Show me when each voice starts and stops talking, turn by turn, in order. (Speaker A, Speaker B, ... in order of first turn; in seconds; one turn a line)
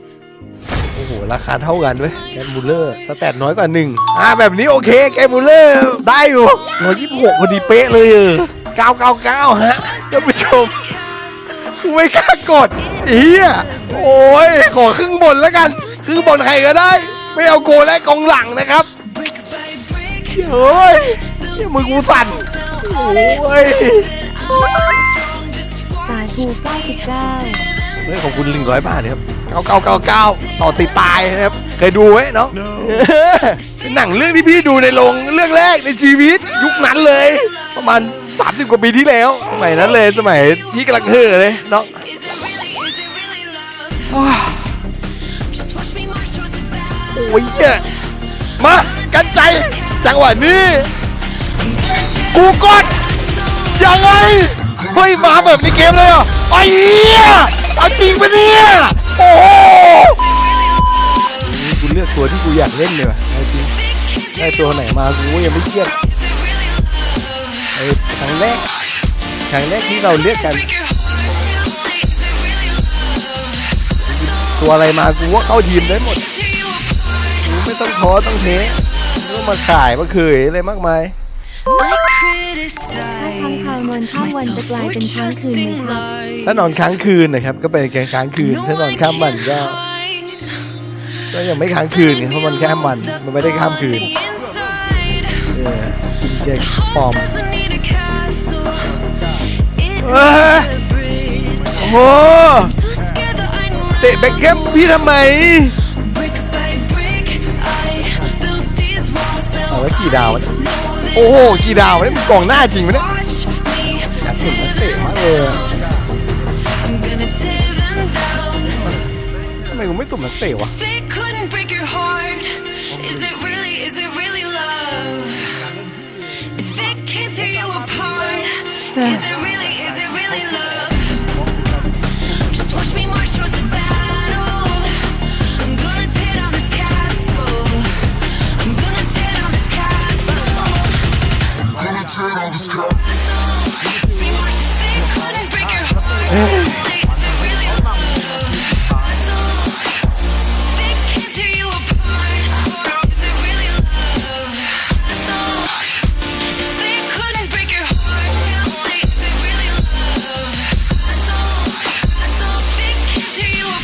Speaker A: 0.9-10.9
Speaker A: 11.5-18.9
Speaker A: 20.2-24.2
Speaker B: 25.8-27.7
Speaker A: 28.0-42.0
Speaker A: 44.1-44.8
Speaker A: 47.1-47.9
Speaker A: 48.6-50.9
Speaker A: 52.2-53.0
Speaker A: 53.6-60.2
Speaker A: 61.4-63.7
Speaker A: 64.4-66.0
Speaker A: 67.8-68.7
Speaker A: 69.5-70.7
Speaker A: 74.0-76.3
Speaker A: 77.4-81.2
Speaker B: 82.0-86.1
Speaker A: 86.4-89.8
Speaker A: 91.3-94.3
Speaker A: 95.3-97.4
Speaker B: 98.3-98.8
Speaker A: 100.0-100.8
Speaker B: 101.1-101.4
Speaker A: 101.7-102.8
Speaker A: 104.0-105.8
Speaker B: 106.8-107.3
Speaker A: 109.7-110.6
Speaker A: 111.1-113.2
Speaker A: 114.0-115.7
Speaker A: 118.6-119.0
Speaker A: 119.6-120.8
Speaker C: 126.9-128.5
Speaker A: 128.9-129.4
Speaker C: 130.5-130.9
Speaker A: 132.7-133.1
Speaker C: 142.1-142.5
Speaker A: 146.2-147.1
Speaker B: 157.3-159.3
Speaker B: 163.2-163.6